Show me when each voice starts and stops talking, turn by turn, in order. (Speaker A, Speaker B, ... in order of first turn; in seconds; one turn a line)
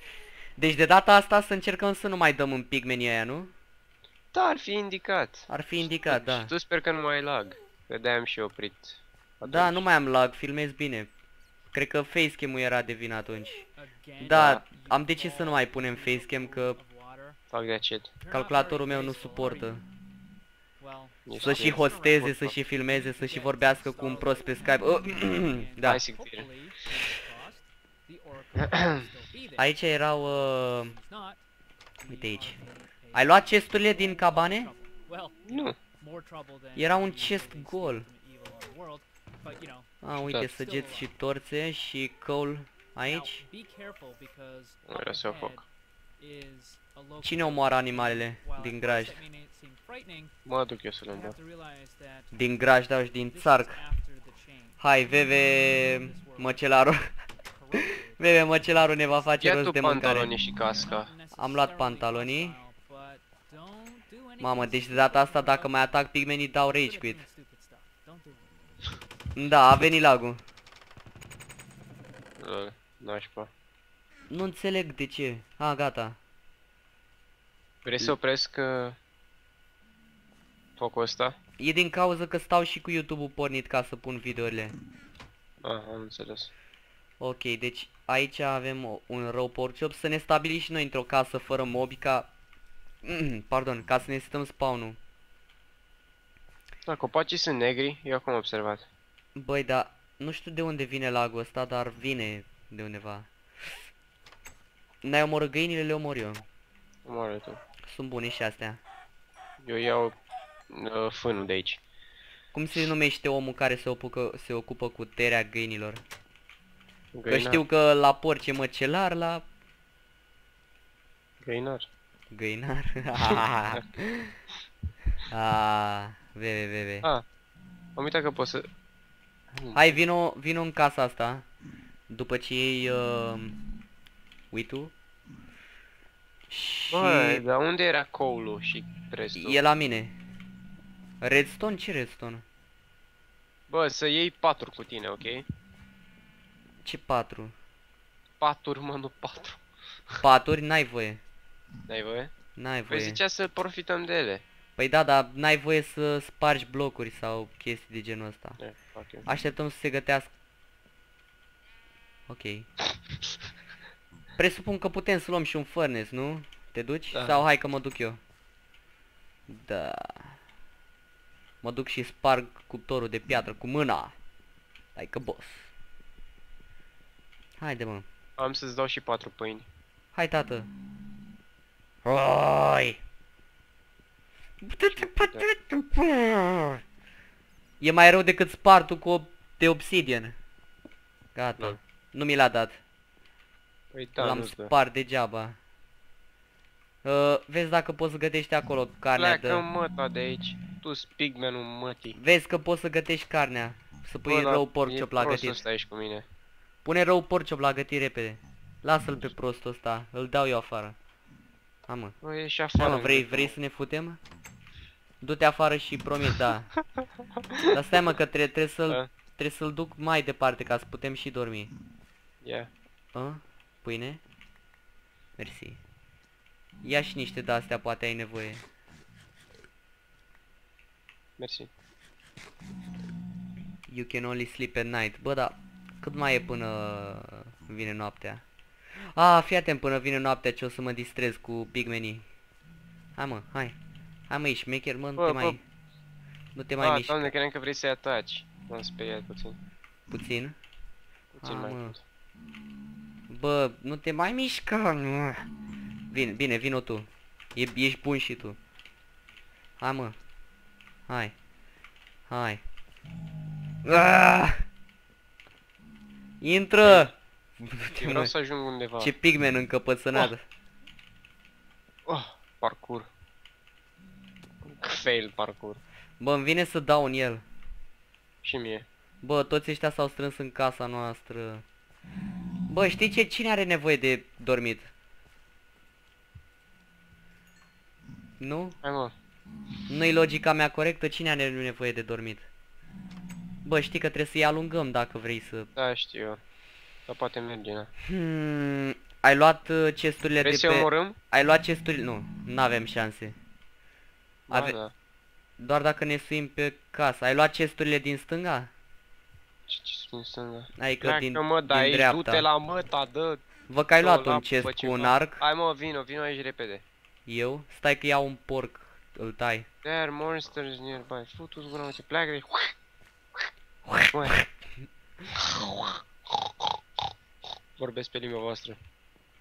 Speaker A: 0.6-3.5
Speaker B: 4.3-9.9
Speaker A: 5.5-6.5
Speaker A: 9.4-11.1
Speaker A: 11.7-13.7
Speaker C: 13.8-17.4
Speaker A: 14.2-16.8
Speaker B: 14.3-14.6
Speaker B: 17.5-18.2
Speaker C: 18.1-19.8
Speaker A: 18.3-19.8
Speaker C: 20.8-31.4
Speaker B: 21.2-22.6
Speaker A: 21.4-26.0
Speaker B: 25.8-26.5
Speaker B: 28.7-29.0
Speaker A: 29.6-30.9
Speaker C: 32.0-39.9
Speaker A: 32.1-32.5
Speaker A: 33.1-34.7
Speaker B: 35.5-35.8
Speaker A: 36.8-38.1
Speaker A: 40.0-43.4
Speaker B: 40.2-40.5
Speaker C: 40.4-41.1
Speaker C: 43.0-45.6
Speaker B: 44.9-45.6
Speaker C: 46.2-50.3
Speaker A: 47.2-49.2
Speaker B: 50.5-51.4
Speaker C: 51.1-52.4
Speaker A: 52.3-53.8
Speaker C: 53.2-56.7
Speaker A: 54.8-57.1
Speaker C: 57.4-68.5
Speaker A: 58.2-60.3
Speaker B: 59.4-61.1
Speaker A: 61.3-62.6
Speaker A: 64.4-67.2
Speaker A: 69.3-70.4
Speaker B: 72.4-73.5
Speaker A: 74.3-76.2
Speaker B: 77.8-79.0
Speaker B: 80.8-81.3
Speaker A: 81.6-84.7
Speaker B: 85.6-86.5
Speaker A: 87.2-92.3
Speaker A: 93.0-95.0
Speaker B: 96.8-98.8
Speaker A: 99.3-103.8
Speaker A: 105.0-106.4
Speaker B: 107.0-107.6
Speaker A: 107.8-108.8
Speaker B: 109.6-110.1
Speaker B: 110.7-111.8
Speaker A: 112.5-116.0
Speaker B: 117.1-117.6
Speaker A: 117.3-119.5
Speaker B: 121.4-121.8
Speaker A: 122.3-124.3
Speaker B: 123.3-123.8
Speaker A: 125.3-127.1
Speaker B: 128.0-128.7
Speaker B: 129.5-130.0
Speaker A: 129.7-131.5
Speaker A: 132.1-133.6
Speaker A: 134.5-134.9
Speaker A: 136.5-137.4
Speaker B: 136.9-139.6
Speaker A: 139.3-140.2
Speaker A: 141.2-142.4
Speaker B: 143.7-145.4
Speaker A: 146.8-147.5
Speaker B: 148.4-150.2
Speaker A: 150.2-151.2
Speaker B: 151.9-152.3
Speaker A: 152.6-153.2
Speaker B: 152.9-154.4
Speaker A: 154.8-158.6
Speaker B: 158.6-159.2
Speaker A: 159.2-160.3
Speaker A: 162.3-162.7
Speaker A: 164.4-168.2
Speaker B: 167.1-167.4
Speaker A: 169.5-170.3
Speaker A: 171.6-174.1
Speaker A: 174.9-175.7
Speaker A: 177.6-178.0
Speaker B: 178.4-179.7
Speaker A: 180.1-180.7
Speaker A: 182.0-183.0
Speaker A: 184.6-186.8
Speaker B: 184.9-185.5
Speaker A: 187.8-190.3
Speaker A: 191.3-192.8
Speaker B: 193.9-194.7
Speaker A: 194.2-195.6
Speaker A: 197.0-199.7
Speaker B: 199.1-202.2
Speaker A: 202.1-205.6
Speaker B: 204.2-206.2
Speaker A: 206.8-210.9
Speaker A: 211.9-212.2
Speaker B: 212.2-213.5
Speaker A: 212.8-214.2
Speaker A: 215.2-216.7
Speaker B: 217.5-218.1
Speaker A: 217.6-221.7
Speaker B: 222.4-222.7
Speaker A: 223.1-224.2
Speaker A: 225.4-225.8
Speaker A: 226.8-228.6
Speaker B: 231.4-231.7
Speaker A: 233.9-238.4
Speaker A: 239.1-242.2
Speaker A: 243.2-243.8
Speaker A: 244.3-245.6
Speaker B: 245.2-245.6
Speaker A: 246.5-247.3
Speaker B: 246.8-249.6
Speaker A: 250.1-250.6
Speaker B: 251.3-252.0
Speaker A: 251.4-251.9
Speaker A: 253.3-255.5
Speaker A: 256.1-258.6
Speaker A: 259.8-260.1
Speaker A: 261.1-261.3
Speaker A: 262.3-262.6
Speaker A: 263.8-264.6
Speaker A: 266.4-268.3
Speaker B: 266.8-267.1
Speaker B: 267.8-269.1
Speaker A: 269.0-270.4
Speaker B: 272.1-273.1
Speaker B: 274.6-275.8
Speaker A: 276.2-277.4
Speaker B: 278.4-278.8
Speaker A: 279.2-281.6
Speaker A: 282.7-284.9
Speaker A: 288.4-288.8
Speaker B: 288.8-289.1
Speaker A: 289.9-292.5
Speaker A: 293.6-295.7
Speaker B: 295.8-296.4
Speaker B: 297.1-297.9
Speaker A: 298.0-303.4
Speaker B: 300.4-301.2
Speaker B: 304.5-304.9
Speaker A: 304.5-304.8
Speaker A: 305.6-308.7
Speaker B: 309.7-313.4
Speaker A: 310.8-312.5
Speaker A: 313.7-315.4
Speaker B: 314.0-316.8
Speaker A: 317.2-319.6
Speaker B: 319.8-322.7
Speaker A: 323.8-324.4
Speaker B: 324.0-324.4
Speaker B: 325.3-325.9
Speaker B: 327.8-328.8